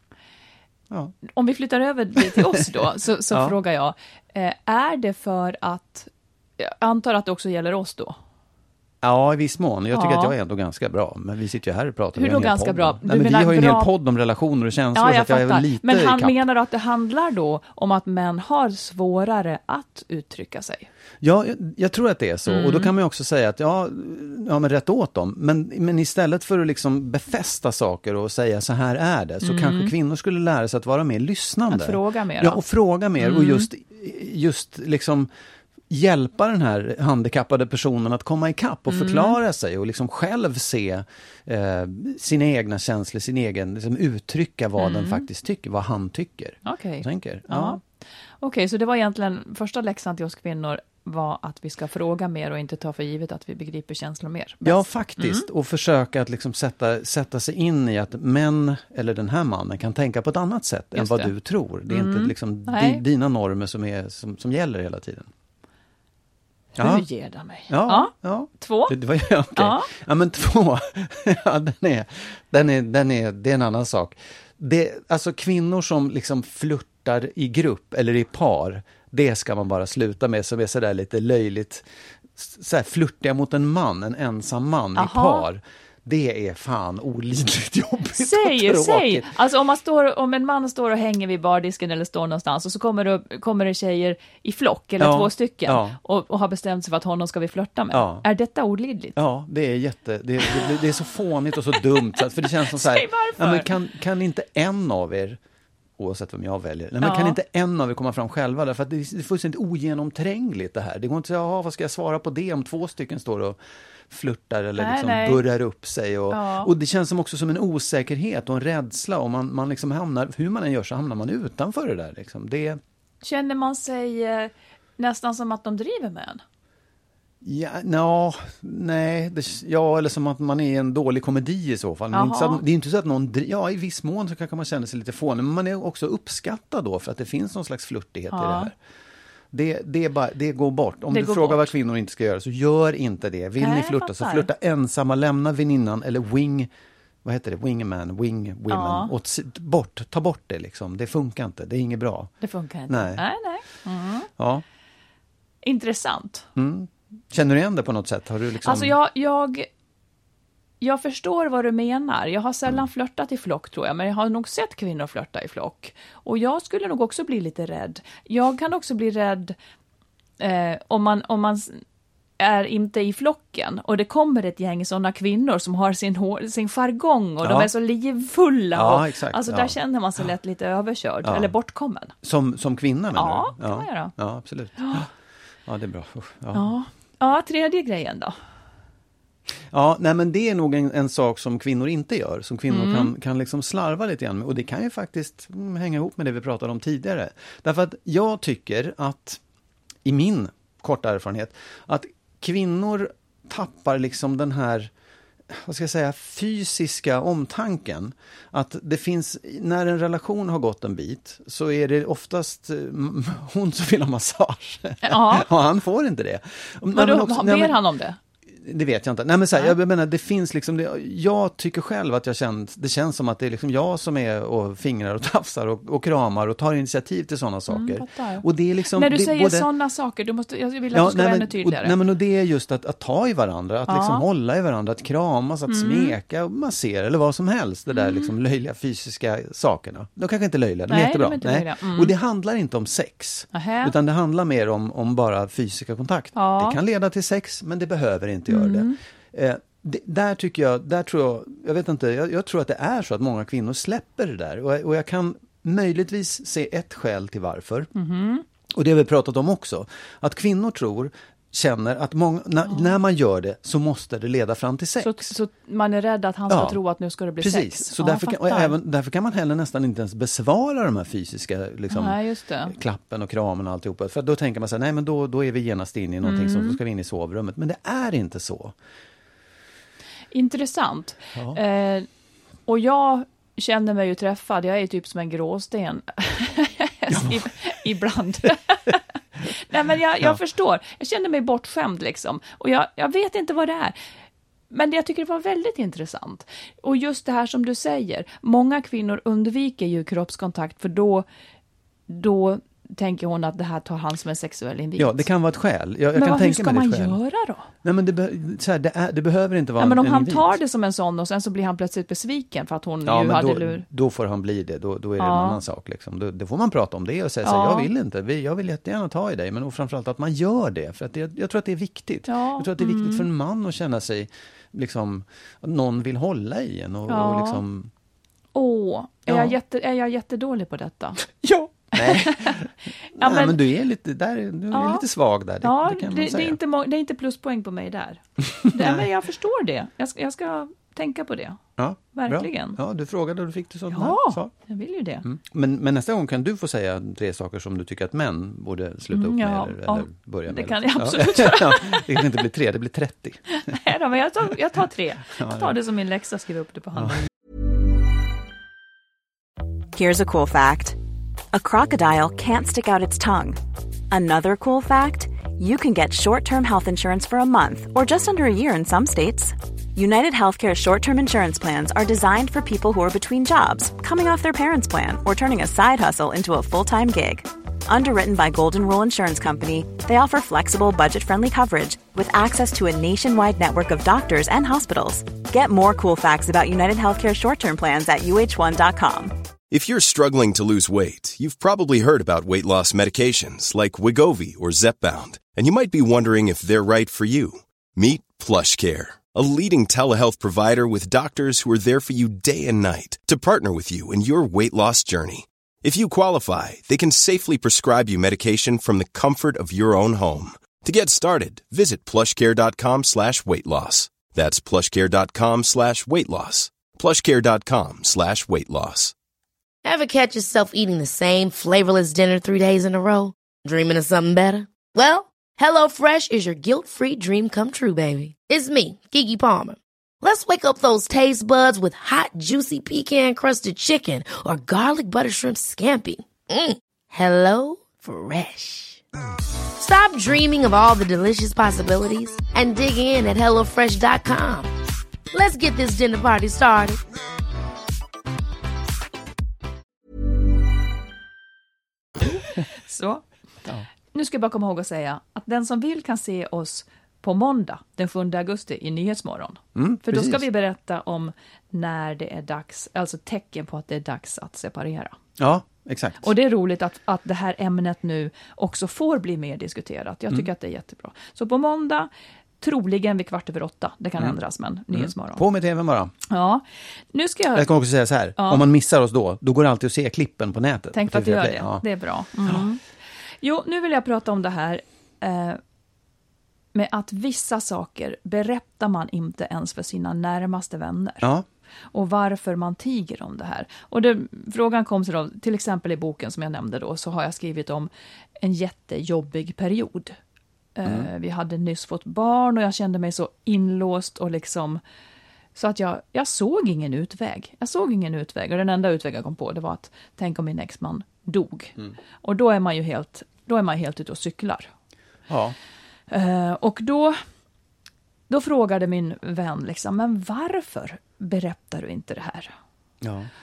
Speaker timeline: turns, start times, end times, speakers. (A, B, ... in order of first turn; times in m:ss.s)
0:00.9-0:01.2 A
0:01.3-0:08.2 B
0:03.3-0:03.6 A
0:09.0-0:16.4 A
0:09.9-0:10.3 B
0:12.2-0:13.9 B
0:14.9-0:20.9 B
0:21.2-0:35.3 A
0:22.5-0:22.9 B
0:29.4-0:29.9 B
0:31.7-0:32.6 B
0:33.2-0:33.7 B
0:35.9-0:47.8 A
0:38.9-0:39.4 B
0:44.8-0:45.3 B
0:46.6-0:47.8 B
0:48.4-0:55.5 B
0:54.6-1:05.3 A
1:01.0-1:01.3 B
1:01.9-1:03.0 B
1:06.8-1:09.0 B
1:06.8-1:07.1 A
1:07.7-1:29.3 A
1:09.5-1:09.9 B
1:25.0-1:25.5 B
1:28.2-1:39.2 B
1:35.0-1:36.0 A
1:37.9-1:38.3 A
1:39.2-1:45.4 A
1:40.5-1:40.8 B
1:41.8-1:43.7 B
1:46.0-1:53.6 A
1:47.0-1:47.4 B
1:54.1-2:02.8 A
1:54.8-1:55.4 B
1:56.3-1:56.7 B
2:03.2-2:06.4 B
2:07.4-2:18.8 A
2:12.1-2:12.6 B
2:18.3-2:18.7 B
2:19.5-2:26.7 A
2:21.1-2:21.7 B
2:23.6-2:24.5 B
2:27.2-2:32.3 A
2:28.7-2:29.1 B
2:32.4-2:34.3 B
2:32.9-2:33.2 A
2:34.4-2:34.6 A
2:35.6-2:36.5 B
2:36.6-2:39.0 A
2:38.6-2:39.7 B
2:40.8-2:49.6 B
2:50.4-2:51.8 B
2:52.4-3:02.1 B
2:57.4-2:57.7 A
2:58.8-2:59.8 A
3:01.2-3:01.5 A
3:02.2-3:05.1 A
3:03.1-3:04.1 B
3:04.8-3:05.1 B
3:05.7-3:06.7 A
3:06.5-3:08.4 B
3:09.7-3:19.4 A
3:12.7-3:13.1 B
3:20.0-3:24.9 A
3:25.5-3:37.8 A
3:35.0-3:35.5 B
3:36.9-3:38.2 B
3:38.5-3:49.7 A
3:47.7-3:51.9 B
3:50.9-4:17.9 A
3:53.9-3:54.2 B
3:55.7-3:56.2 B
3:57.9-3:58.3 B
4:00.9-4:02.1 B
4:03.5-4:03.9 B
4:06.4-4:06.8 B
4:08.5-4:09.0 B
4:18.0-4:18.4 B
4:18.7-4:25.3 A
4:25.0-4:28.8 B
4:26.5-4:26.8 A
4:27.4-4:38.8 A
4:31.9-4:32.7 B
4:36.2-4:36.8 B
4:40.3-4:42.1 B
4:41.4-4:41.6 A
4:42.7-4:54.0 B
4:54.7-5:01.3 B
5:02.1-5:05.3 B
5:05.0-5:07.2 A
5:06.1-5:07.7 B
5:07.8-5:10.6 A
5:09.8-5:13.8 B
5:13.0-5:27.9 A
5:15.2-5:15.6 B
5:17.4-5:17.9 B
5:22.3-5:23.3 B
5:27.1-5:27.6 B
5:28.5-5:31.2 B
5:29.3-5:29.6 A
5:31.2-5:36.6 A
5:32.0-5:32.6 B
5:33.1-5:33.6 B
5:34.7-5:35.0 B
5:35.6-5:41.6 B
5:38.6-5:39.1 A
5:41.8-5:44.5 A
5:42.1-5:42.8 B
5:43.9-5:45.2 B
5:45.2-5:53.8 A
5:49.1-5:52.3 B
5:53.6-5:57.3 B
5:55.4-5:55.8 A
5:59.9-6:01.0 C
6:01.5-6:03.6 C
6:04.1-6:29.4 C
6:29.7-6:59.1 D
6:59.8-7:19.0 E
7:19.8-7:24.7 E
7:25.3-7:27.0 E
7:32.2-7:33.2 B
7:34.1-7:45.2 B
7:39.8-7:40.4 A
7:45.4-7:46.3 A
7:46.2-7:52.1 B
7:52.6-7:55.4 B
7:54.9-7:56.1 A
7:56.3-7:57.7 B
7:57.6-8:01.8 A
7:58.4-7:58.6 B
8:00.9-8:02.8 B
8:03.4-8:05.6 B
8:06.7-8:11.3 B
8:11.9-8:20.2 B
8:20.8-8:24.8 B
8:20.8-8:21.1 A
8:25.6-8:34.7 B
8:35.3-8:35.6 A
8:36.1-8:37.2 B
8:38.3-8:42.5 B
8:43.0-8:43.3 A